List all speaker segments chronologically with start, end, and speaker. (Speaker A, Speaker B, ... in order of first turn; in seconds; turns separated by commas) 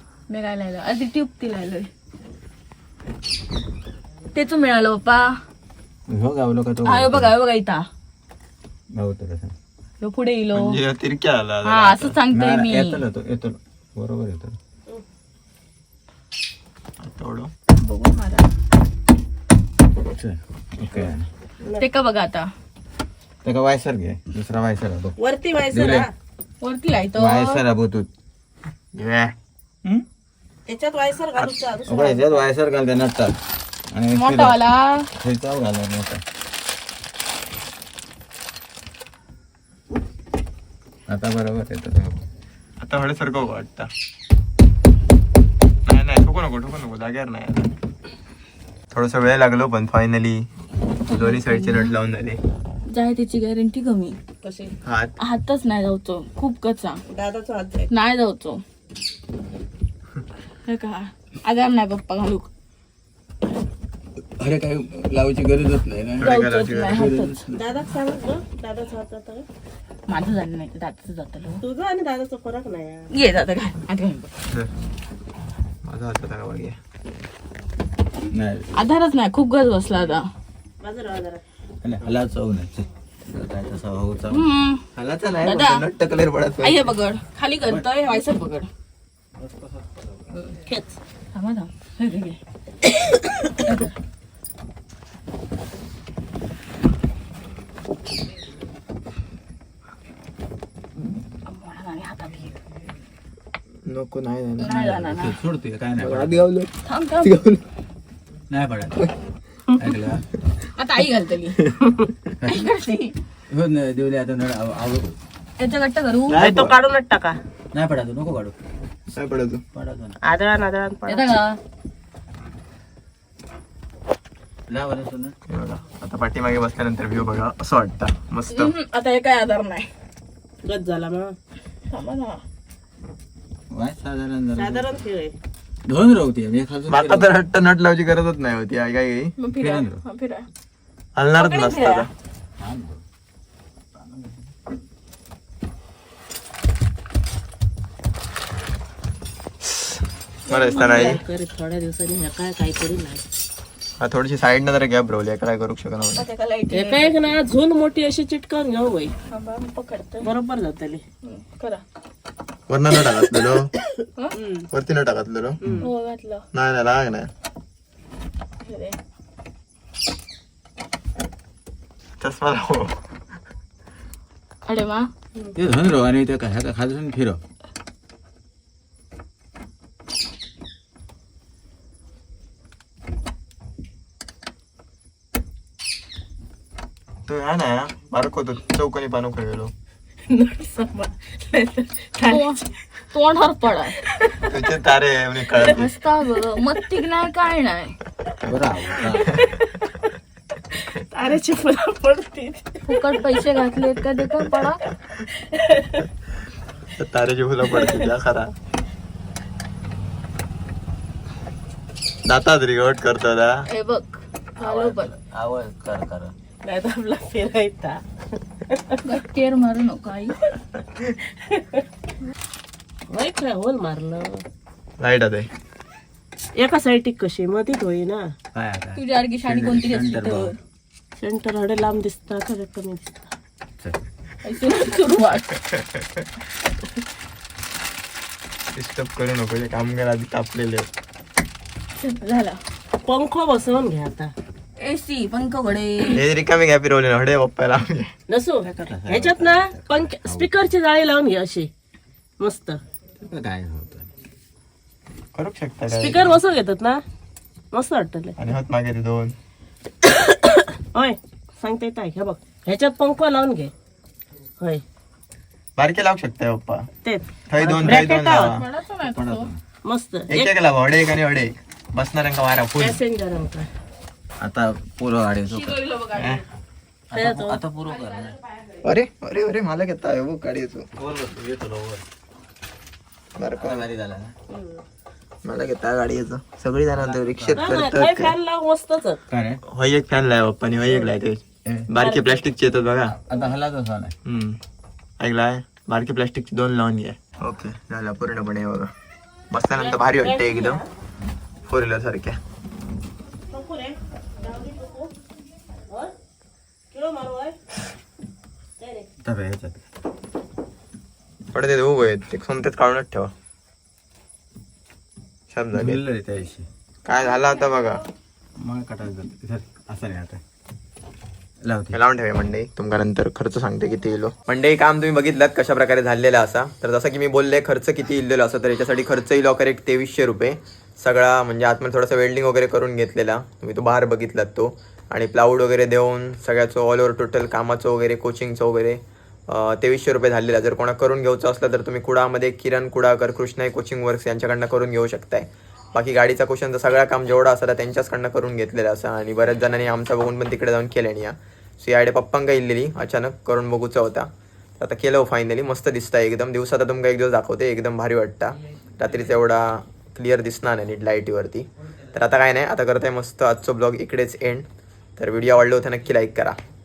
Speaker A: 0.3-1.9, Speaker A: 4.3-5.2, Speaker B: 6.1-7.3, Speaker A: 6.8-7.8, Speaker B: 8.9-9.5, Speaker A: 10.0-10.7, Speaker C: 10.5-12.2, Speaker A: 11.6-13.0, Speaker B: 12.3-14.6, Speaker C: 17.0-17.5, Speaker A: 17.8-18.5, Speaker B: 20.1-21.3, Speaker A: 21.8-22.5, Speaker B: 23.4-25.1, Speaker D: 25.2-26.1, Speaker B: 25.7-26.1, Speaker A: 26.6-27.6, Speaker B: 27.1-28.1, Speaker B: 29.1-29.3, Speaker D: 30.7-32.5, Speaker B: 31.4-33.4, Speaker B: 33.9-34.6, Speaker A: 34.1-35.1, Speaker B: 35.1-36.2, Speaker B: 41.1-42.2, Speaker C: 42.8-43.9, Speaker C: 45.9-47.7, Speaker C: 48.9-50.5, Speaker A: 51.0-51.9, Speaker C: 51.1-52.4, Speaker A: 52.9-54.2, Speaker D: 54.4-54.7, Speaker C: 54.8-55.1, Speaker A: 55.2-57.0, Speaker D: 57.1-57.9, Speaker A: 57.9-58.6, Speaker A: 60.6-62.5, Speaker B: 64.2-66.3, Speaker C: 66.2-67.1, Speaker A: 66.2-67.4, Speaker B: 66.9-67.6, Speaker D: 67.5-69.5, Speaker A: 70.1-71.6, Speaker D: 71.6-73.1, Speaker A: 73.1-74.3, Speaker C: 75.8-76.8, Speaker B: 78.3-78.8, Speaker A: 78.7-80.2, Speaker D: 80.8-81.4, Speaker B: 81.8-84.5, Speaker A: 84.3-84.8, Speaker C: 84.9-86.8, Speaker A: 85.4-85.8, Speaker A: 86.6-88.7, Speaker B: 87.6-88.2, Speaker B: 89.4-90.3, Speaker D: 90.6-91.0, Speaker A: 91.3-92.4, Speaker A: 93.6-93.9, Speaker A: 101.4-102.6, Speaker C: 103.8-105.1, Speaker A: 104.6-105.4, Speaker B: 104.8-106.5, Speaker C: 106.0-107.6, Speaker A: 106.8-107.3, Speaker B: 108.5-109.1, Speaker B: 109.8-110.4, Speaker A: 110.6-111.7, Speaker B: 112.4-112.7, Speaker A: 112.4-113.1, Speaker B: 113.5-115.2, Speaker A: 115.6-116.4, Speaker B: 116.3-116.5, Speaker C: 116.3-116.7, Speaker D: 116.3-117.4, Speaker B: 117.7-118.5, Speaker C: 119.1-119.6, Speaker B: 119.7-120.2, Speaker D: 120.2-121.3, Speaker A: 121.1-121.6, Speaker B: 124.7-125.3, Speaker C: 125.5-128.7, Speaker A: 128.5-129.9, Speaker D: 130.6-131.3, Speaker A: 131.9-132.4, Speaker B: 133.7-135.0, Speaker D: 134.5-135.3, Speaker B: 135.8-137.3, Speaker C: 136.9-139.3, Speaker A: 139.4-140.4, Speaker B: 139.5-140.0, Speaker C: 141.2-142.1, Speaker A: 141.4-142.1, Speaker B: 142.6-143.0, Speaker B: 143.9-144.5, Speaker C: 150.5-151.2, Speaker A: 150.5-151.2, Speaker D: 150.7-153.2, Speaker C: 154.0-156.2, Speaker A: 156.2-157.3, Speaker D: 156.7-159.1, Speaker A: 159.3-160.3, Speaker D: 160.2-161.0, Speaker A: 161.2-161.8, Speaker C: 162.7-163.7, Speaker D: 164.3-164.7, Speaker C: 164.7-165.8, Speaker A: 165.8-166.4, Speaker C: 166.5-167.3, Speaker A: 168.6-169.0, Speaker C: 172.2-173.0, Speaker A: 174.7-175.1, Speaker B: 175.6-177.4, Speaker C: 187.2-189.7, Speaker D: 190.3-192.6, Speaker A: 192.2-194.0, Speaker D: 194.1-194.5, Speaker C: 194.5-195.9, Speaker A: 195.6-197.9, Speaker B: 198.4-199.3, Speaker D: 199.0-199.9, Speaker D: 200.7-203.2, Speaker A: 202.9-204.8, Speaker D: 205.2-206.1, Speaker C: 207.0-208.5, Speaker C: 212.2-213.5, Speaker A: 213.7-215.1, Speaker B: 214.6-216.3, Speaker D: 216.6-218.0, Speaker D: 218.7-219.0, Speaker A: 219.0-220.4, Speaker D: 221.3-221.8, Speaker D: 223.1-224.4, Speaker C: 225.0-225.5, Speaker D: 226.6-228.2, Speaker B: 228.5-230.5, Speaker A: 228.9-230.6, Speaker D: 231.2-233.3, Speaker A: 234.4-235.5, Speaker C: 235.6-236.2, Speaker C: 238.8-240.9, Speaker A: 242.0-242.6, Speaker D: 243.0-244.3, Speaker A: 244.8-246.2, Speaker C: 246.1-248.1, Speaker D: 248.3-251.7, Speaker B: 248.6-250.7, Speaker D: 252.4-252.8, Speaker B: 253.2-254.1, Speaker C: 255.3-256.4, Speaker D: 255.9-257.0, Speaker D: 257.7-258.4, Speaker C: 258.4-259.3, Speaker D: 260.0-263.7, Speaker C: 265.8-266.9, Speaker D: 267.0-268.6, Speaker C: 267.5-268.7, Speaker A: 268.3-269.5, Speaker B: 269.0-269.6, Speaker D: 269.8-270.5, Speaker C: 270.3-273.0, Speaker D: 272.8-273.7, Speaker B: 274.4-275.9, Speaker A: 275.4-276.4, Speaker C: 276.1-276.4, Speaker B: 277.1-278.4, Speaker D: 277.1-277.6, Speaker A: 277.9-278.7, Speaker C: 278.8-280.9, Speaker B: 281.0-282.1, Speaker C: 283.4-283.9, Speaker B: 283.6-284.3, Speaker D: 284.5-284.8, Speaker C: 285.4-288.3, Speaker B: 286.9-287.8, Speaker D: 287.6-289.2, Speaker B: 289.3-289.6, Speaker C: 289.6-293.2, Speaker D: 290.9-291.1, Speaker D: 292.0-292.4, Speaker B: 293.1-294.1, Speaker C: 294.2-294.6, Speaker C: 295.2-298.9, Speaker C: 299.5-300.8, Speaker D: 299.8-300.9, Speaker C: 301.6-302.4, Speaker D: 303.5-305.1, Speaker D: 306.9-307.5, Speaker D: 308.8-309.1, Speaker B: 309.2-309.8, Speaker C: 311.5-313.3, Speaker C: 315.5-316.0, Speaker B: 315.7-316.7, Speaker C: 317.0-318.0, Speaker B: 318.6-320.4, Speaker B: 321.6-322.0, Speaker C: 321.9-366.6